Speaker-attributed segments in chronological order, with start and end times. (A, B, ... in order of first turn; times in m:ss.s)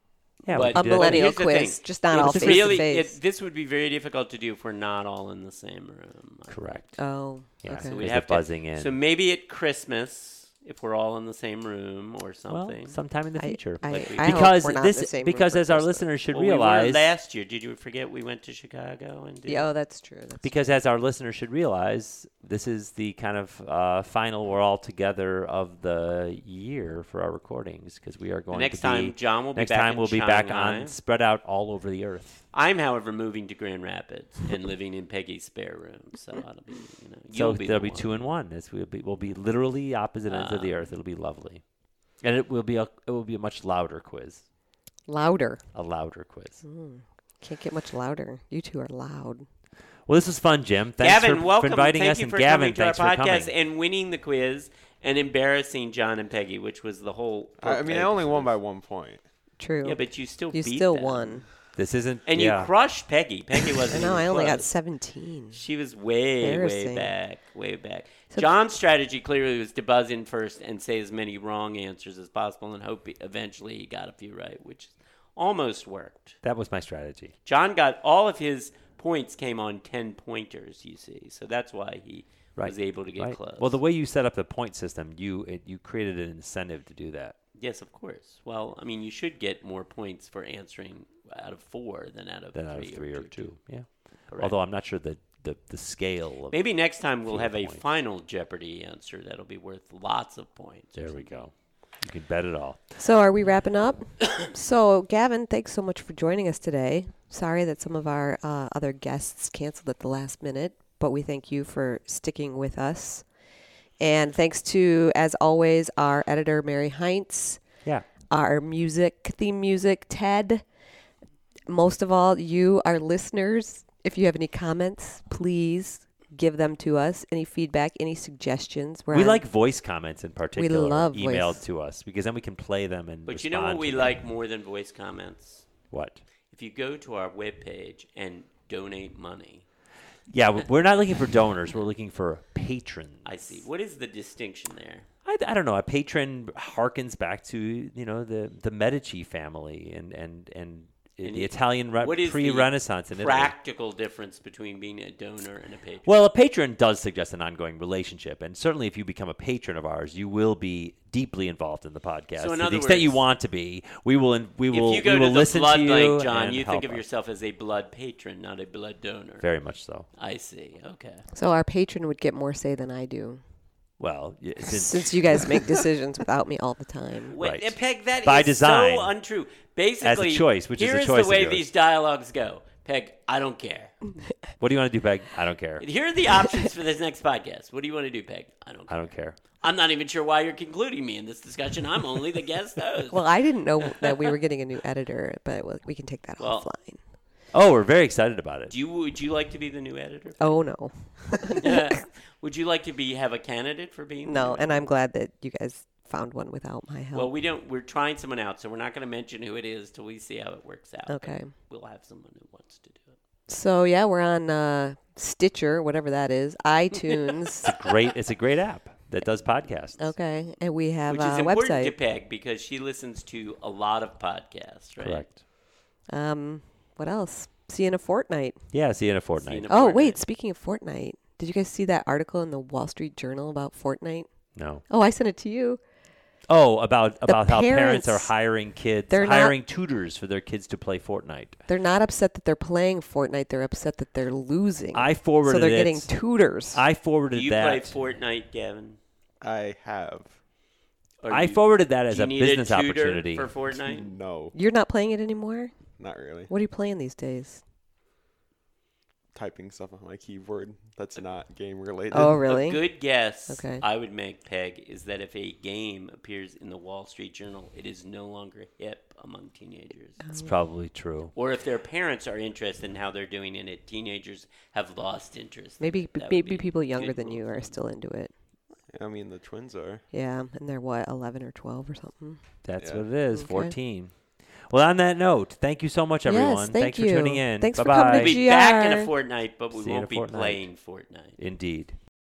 0:00.4-0:01.4 A
0:00.5-0:06.8 B
0:00.5-0:03.1 C
0:02.1-0:02.9 A
0:06.5-0:07.0 A
0:07.0-0:08.0 C
0:07.6-0:08.9 A
0:07.7-0:13.0 B
0:12.5-0:17.0 A
0:13.4-0:16.0 C
0:13.8-0:14.5 B
0:16.3-0:19.6 B
0:19.5-0:20.6 C
0:20.4-0:32.4 A
0:28.5-0:30.9 B
0:32.5-0:38.2 B
0:37.3-0:41.6 A
0:40.3-0:40.8 B
0:42.2-0:44.4 A
0:45.1-0:45.6 C
0:45.7-0:46.6 A
0:46.6-0:49.4 C
0:50.1-0:53.5 A
0:51.0-0:58.6 B
0:57.6-0:59.2 D
0:59.6-1:01.4 C
0:59.8-1:01.5 B
1:01.8-1:02.7 A
1:02.2-1:04.7 B
1:03.9-1:05.6 C
1:04.0-1:04.5 D
1:05.5-1:16.4 B
1:06.4-1:07.1 C
1:16.4-1:17.3 A
1:17.4-1:23.8 B
1:22.6-1:27.4 A
1:27.6-1:33.5 B
1:32.5-1:36.6 A
1:34.3-1:34.5 B
1:36.5-1:41.4 B
1:37.2-1:37.8 A
1:41.0-1:43.0 A
1:43.0-1:53.2 C
1:54.0-1:57.6 C
1:58.3-2:00.6 C
2:01.7-2:09.4 C
2:09.1-2:14.2 A
2:10.6-2:11.6 C
2:13.3-2:15.7 B
2:15.9-2:16.2 A
2:16.5-2:19.6 B
2:20.3-2:23.3 A
2:23.2-2:25.0 B
2:25.2-2:33.5 A
2:31.2-2:36.1 B
2:36.0-2:47.0 A
2:42.4-2:43.2 B
2:44.7-2:49.4 B
2:49.4-2:50.1 A
2:50.2-2:51.2 B
2:51.3-2:53.4 C
2:54.0-2:55.6 A
2:54.7-2:57.4 C
2:57.3-3:04.0 B
2:57.4-2:59.1 A
3:00.0-3:01.7 A
3:04.6-3:05.8 A
3:05.8-3:09.1 B
3:08.9-3:09.4 A
3:09.6-3:13.2 B
3:13.1-3:17.0 C
3:13.8-3:14.3 B
3:16.4-3:16.7 B
3:17.5-3:18.7 A
3:18.7-3:20.4 B
3:20.4-3:21.9 C
3:21.5-3:24.8 B
3:24.2-3:27.3 C
3:27.1-3:33.2 B
3:31.1-3:31.5 C
3:33.5-3:37.7 C
3:37.6-3:40.1 A
3:40.0-3:41.9 C
3:41.1-3:45.2 B
3:45.0-3:45.4 A
3:46.1-3:48.6 C
3:48.7-3:49.7 A
3:49.4-3:50.2 B
3:49.7-3:54.3 C
3:54.6-3:54.8 A
3:54.9-3:55.8 C
3:56.5-4:01.6 A
3:57.3-3:58.3 C
3:59.1-3:59.5 C
4:01.7-4:06.8 C
4:04.9-4:06.1 A
4:06.7-4:07.9 A
4:07.3-4:09.0 B
4:09.4-4:10.3 D
4:11.2-4:14.1 B
4:11.3-4:13.5 A
4:13.8-4:14.5 D
4:14.5-4:15.7 C
4:16.0-4:16.5 D
4:16.5-4:17.6 C
4:19.3-4:22.4 D
4:22.1-4:22.8 C
4:22.4-4:30.2 B
4:23.5-4:23.8 C
4:30.2-4:30.5 C
4:30.3-4:31.3 A
4:31.3-4:37.8 B
4:35.8-4:38.3 C
4:38.9-4:40.0 D
4:40.1-4:42.4 C
4:42.6-4:44.1 A
4:42.8-4:43.0 D
4:43.3-4:43.7 C
4:44.7-4:48.4 A
4:46.2-4:49.1 C
4:48.1-4:51.4 B
4:49.7-4:50.6 A
4:51.4-4:52.0 A